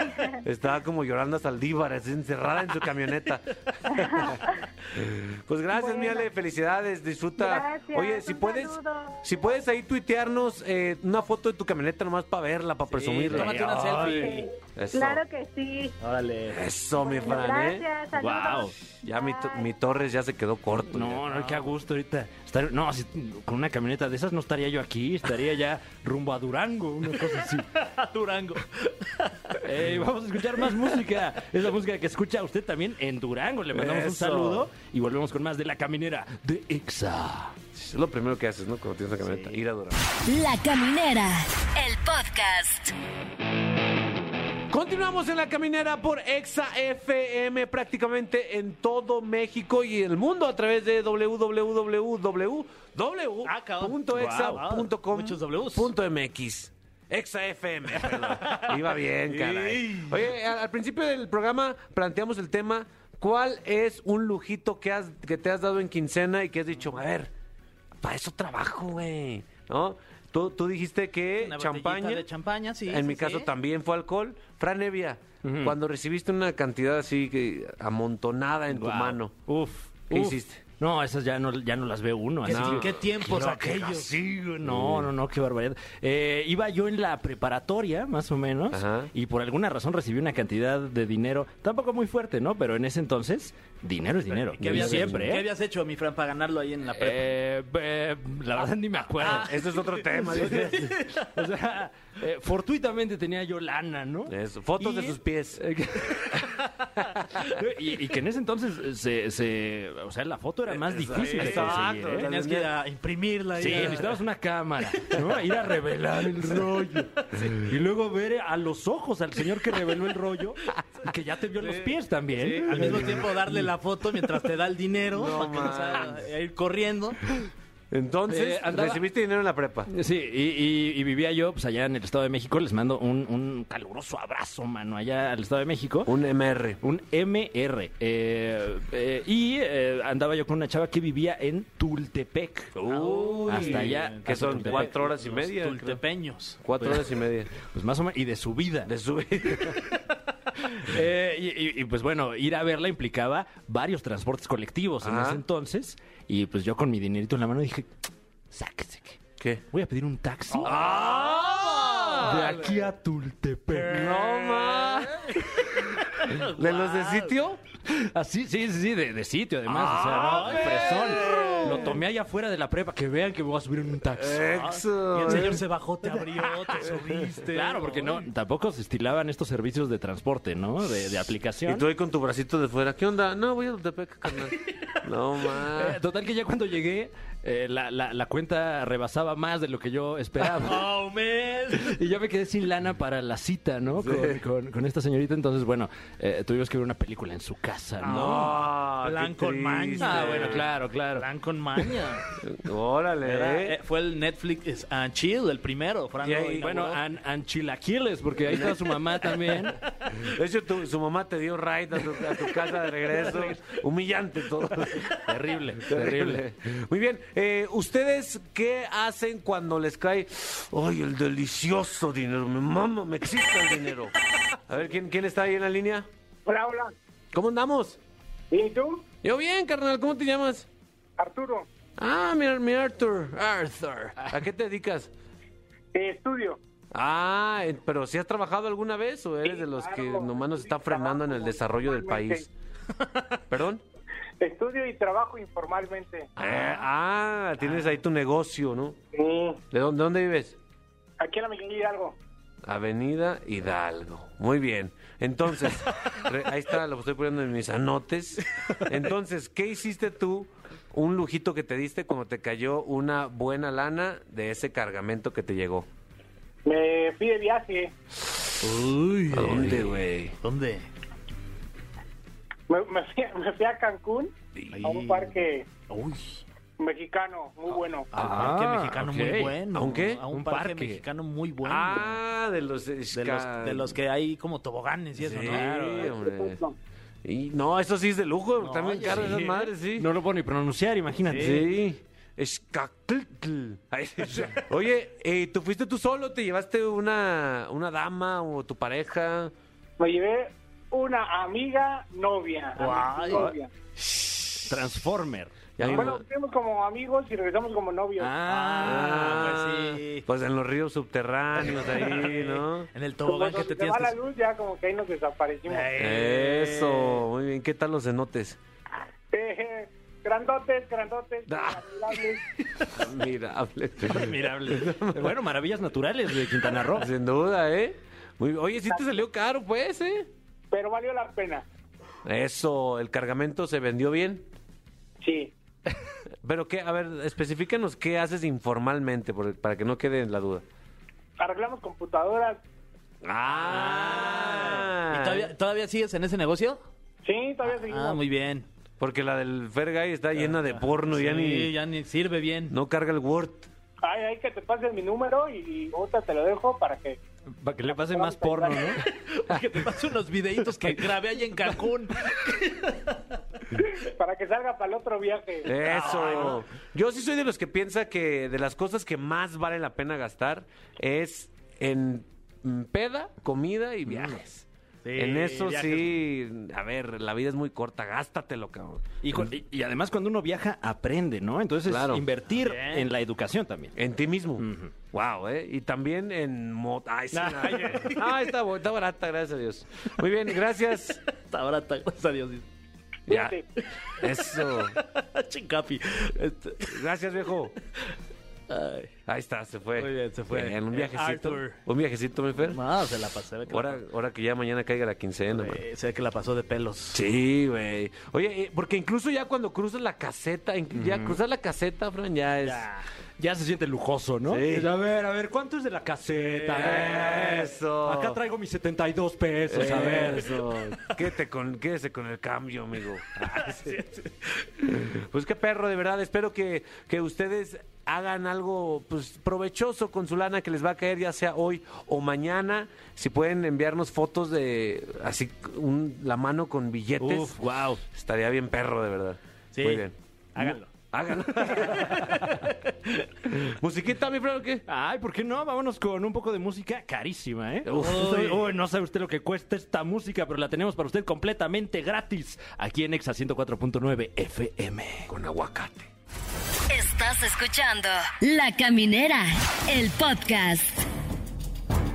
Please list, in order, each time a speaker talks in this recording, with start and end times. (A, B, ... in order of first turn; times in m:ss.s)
0:00.4-0:15.2 A
0:04.0-0:04.5 B
0:05.7-0:06.3 B
0:07.4-0:09.2 B
0:12.9-0:14.5 C
0:14.1-0:16.0 B
0:16.0-0:16.6 C
0:16.5-0:17.8 A
0:17.0-0:19.7 B
0:18.2-0:18.7 D
0:19.0-0:21.3 A
0:20.9-0:27.7 D
0:27.8-0:29.6 C
0:29.6-0:37.6 D
0:33.7-0:34.7 A
0:37.8-0:40.0 A
0:40.2-0:42.9 E
0:44.7-1:07.3 A
0:53.4-0:55.9 C
0:58.0-1:00.2 C
1:08.0-1:12.3 A
1:11.4-1:13.5 C
1:12.9-1:19.3 A
1:15.4-1:15.8 D
1:18.7-1:23.4 D
1:20.1-1:20.6 A
1:22.4-1:24.2 C
1:22.5-1:25.1 A
1:24.6-1:35.4 D
1:28.7-1:29.1 A
1:34.5-1:37.3 C
1:34.6-1:35.2 A
1:37.0-1:39.5 D
1:39.2-1:41.3 C
1:39.3-1:40.9 A
1:40.4-1:46.7 D
1:44.3-1:45.6 A
1:47.4-1:52.3 D
1:50.7-1:52.7 A
1:51.1-1:54.2 C
1:53.6-2:03.7 D
2:01.6-2:01.9 C
2:02.4-2:07.2 C
2:02.6-2:03.2 A
2:05.1-2:06.2 A
2:07.9-2:09.9 A
2:08.3-2:09.0 D
2:09.9-2:16.1 D
2:16.1-2:16.8 A
2:16.8-2:22.8 D
2:22.8-2:26.0 A
2:22.8-2:26.6 C
2:23.5-2:24.9 D
2:26.6-2:27.5 A
2:27.6-2:28.9 D
2:28.9-2:29.8 A
2:30.6-2:38.0 D
2:35.0-2:35.4 A
2:38.5-2:39.2 D
2:39.4-2:39.6 A
2:39.7-2:40.8 D
2:40.5-2:42.5 C
2:40.6-2:42.6 A
2:42.2-2:44.4 D
2:43.9-2:45.4 A
2:43.9-2:44.4 C
2:46.2-2:47.3 C
2:46.6-2:47.6 A
2:47.9-2:54.5 D
2:49.7-2:51.9 A
2:50.2-2:51.9 C
2:54.2-2:55.6 A
2:54.5-2:58.3 C
2:55.3-2:55.6 D
2:57.5-3:01.8 D
3:01.7-3:06.0 A
3:04.5-3:04.9 C
3:05.8-3:11.0 D
3:10.6-3:12.0 C
3:11.7-3:18.5 D
3:14.0-3:14.4 A
3:18.0-3:22.3 C
3:18.0-3:20.7 A
3:20.0-3:21.3 D
3:22.4-3:23.8 A
3:23.2-3:27.0 C
3:26.2-3:26.7 A
3:26.6-3:29.8 D
3:28.5-3:28.8 A
3:30.2-3:35.2 A
3:33.2-3:33.5 C
3:35.2-3:36.4 D
3:35.9-3:44.2 A
3:44.7-3:46.1 A
3:46.5-3:46.9 F
3:47.3-3:48.0 A
3:48.5-3:49.0 F
3:49.2-3:50.7 A
3:51.2-3:51.7 F
3:52.0-3:55.1 A
3:55.9-3:56.6 F
3:56.9-4:02.5 A
3:59.4-4:02.4 F
4:03.5-4:03.8 A
4:04.4-4:06.3 F
4:06.4-4:09.0 A
4:09.2-4:09.6 F
4:09.7-4:10.6 A
4:11.2-4:12.2 F
4:12.6-4:25.9 A
4:26.7-4:27.9 F
4:28.6-4:30.9 C
4:29.3-4:30.4 A
4:32.7-4:35.7 F
4:34.7-4:35.4 C
4:35.9-4:36.4 C
4:36.8-4:38.1 F
4:38.1-4:39.6 D
4:38.1-4:42.2 C
4:38.2-4:38.5 A
4:39.7-4:40.2 A
4:40.3-4:41.0 D
4:41.6-4:44.0 A
4:43.1-4:46.1 C
4:45.2-4:46.6 A
4:45.5-4:46.1 D
4:46.0-4:46.8 F
4:47.2-4:50.1 A
4:48.6-4:49.7 C
4:49.0-4:51.7 D
4:51.3-4:51.6 C
4:51.4-4:59.5 A
5:00.0-5:03.7 F
5:02.8-5:03.5 C
5:04.1-5:04.6 A
5:04.7-5:06.1 D
5:05.8-5:06.2 A
5:05.9-5:08.3 F
5:08.2-5:09.4 D
5:08.5-5:10.2 C
5:08.8-5:12.9 A
5:11.7-5:14.2 C
5:13.2-5:16.0 F
5:15.7-5:17.2 C
5:16.0-5:18.6 A
5:19.3-5:22.4 F
5:21.5-5:21.8 A
5:22.9-5:25.3 A
5:24.1-5:27.1 D
5:27.0-5:30.3 A
5:30.7-5:31.6 F
5:32.2-5:34.4 A
5:35.2-5:35.5 F
5:36.4-5:40.6 A
5:41.4-5:42.6 F
5:43.2-5:45.5 A
5:43.5-5:46.8 C
5:47.2-5:48.2 F
5:47.7-5:48.7 C
5:49.0-5:51.7 A
5:50.4-5:52.8 C
5:52.7-5:53.7 A
5:54.0-5:57.2 F
5:57.6-5:59.0 D
5:57.9-5:58.9 F
5:59.0-6:03.1 C
6:03.8-6:06.3 F
6:05.6-6:14.6 A
6:05.8-6:06.6 C
6:14.1-6:14.4 D
6:15.0-6:16.1 C
6:15.2-6:19.5 A
6:19.2-6:23.9 D
6:21.9-6:22.2 A
6:22.5-6:23.1 C
6:24.0-6:31.2 A
6:24.6-6:24.9 D
6:27.4-6:28.3 C
6:31.3-6:32.6 C
6:33.3-6:33.6 A
6:33.3-6:33.6 F
6:33.8-6:37.0 C
6:34.2-6:35.0 A
6:36.8-6:37.8 A
6:38.7-6:39.1 C
6:39.3-6:42.8 A
6:40.0-6:41.8 C
6:42.6-6:44.0 C
6:43.7-6:45.8 A
6:45.5-6:47.2 C
6:47.1-6:52.9 A
6:50.9-6:51.4 D
6:52.6-6:53.1 C
6:53.4-7:00.6 D
6:54.5-6:54.9 A
6:56.8-6:58.4 A
6:59.7-7:04.0 A
7:03.5-7:04.3 C
7:04.8-7:17.6 A
7:17.2-7:18.0 D
7:18.1-7:22.5 A
7:19.7-7:20.9 C
7:21.6-7:22.7 C
7:22.2-7:22.5 D
7:23.5-7:24.8 A
7:24.9-7:35.3 D
7:27.9-7:28.6 A
7:28.0-7:28.6 C
7:35.3-7:36.1 A
7:36.9-7:41.0 E